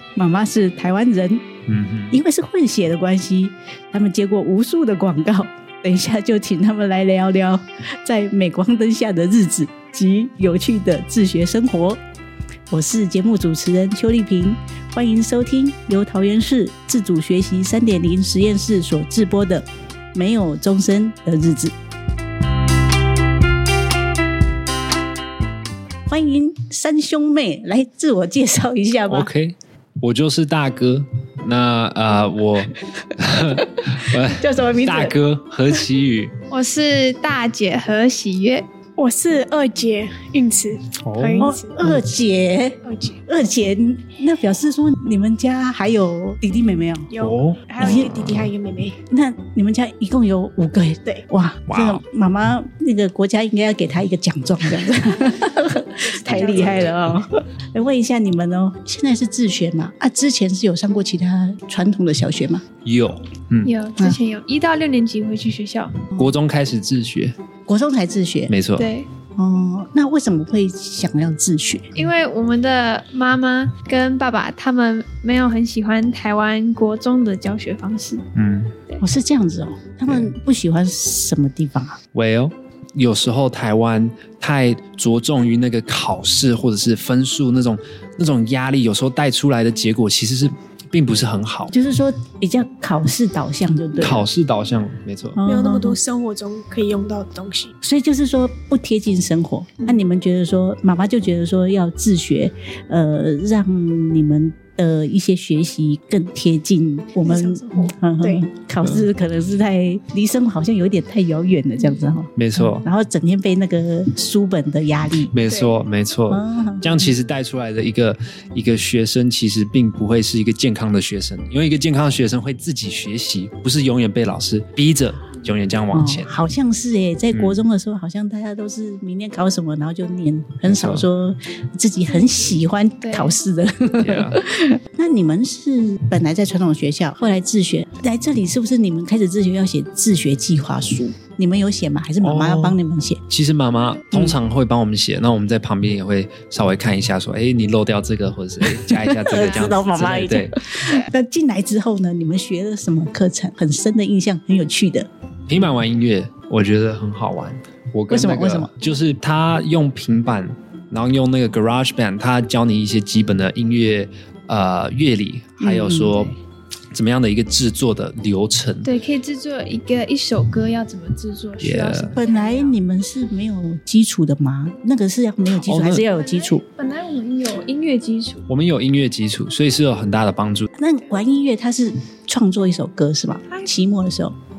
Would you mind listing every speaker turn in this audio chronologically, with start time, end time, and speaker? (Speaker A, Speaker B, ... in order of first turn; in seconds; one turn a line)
Speaker A: 0.1-1.4
Speaker B: 1.7-2.2
Speaker A: 2.1-12.0
Speaker A: 12.7-21.7
Speaker A: 26.1-29.3
Speaker B: 29.1-36.3
Speaker A: 34.3-35.2
Speaker C: 36.5-38.6
Speaker D: 39.0-41.8
Speaker B: 41.0-42.0
Speaker A: 41.4-47.1
Speaker D: 42.8-43.2
Speaker D: 47.1-49.0
Speaker B: 47.2-48.5
Speaker A: 47.8-48.3
Speaker A: 49.1-62.6
Speaker B: 51.7-52.0
Speaker D: 56.0-57.0
Speaker B: 56.4-57.0
Speaker B: 62.8-63.7
Speaker C: 63.6-65.9
Speaker B: 66.2-67.3
Speaker A: 67.7-68.5
Speaker B: 68.5-68.9
Speaker C: 68.8-69.1
Speaker A: 69.3-71.9
Speaker C: 71.9-78.2
Speaker B: 78.3-78.7
Speaker A: 79.0-82.0
Speaker B: 80.0-80.3
Speaker B: 82.1-91.7
Speaker A: 91.7-94.2
Speaker B: 94.0-95.4
Speaker A: 95.3-96.0
Speaker D: 95.5-97.7
Speaker A: 97.8-115.3
Speaker D: 107.2-108.5
Speaker B: 112.3-112.8
Speaker B: 115.3-126.4
Speaker D: 115.5-115.8
Speaker A: 116.3-117.1
Speaker A: 125.9-143.2
Speaker B: 127.3-127.6
Speaker B: 130.6-131.1
Speaker C: 132.1-133.4
Speaker B: 134.0-134.4
Speaker B: 142.2-150.5
Speaker A: 144.1-144.4
Speaker A: 148.7-155.1
Speaker C: 149.3-149.8
Speaker C: 150.8-151.1
Speaker B: 155.5-166.3
Speaker A: 158.1-158.7
Speaker A: 165.6-166.3
Speaker B: 166.9-168.9
Speaker C: 168.8-172.8
Speaker B: 171.6-172.1
Speaker A: 172.1-176.6
Speaker B: 175.6-176.1
Speaker C: 176.0-178.4
Speaker B: 178.5-180.7
Speaker A: 180.8-184.3
Speaker C: 183.5-183.8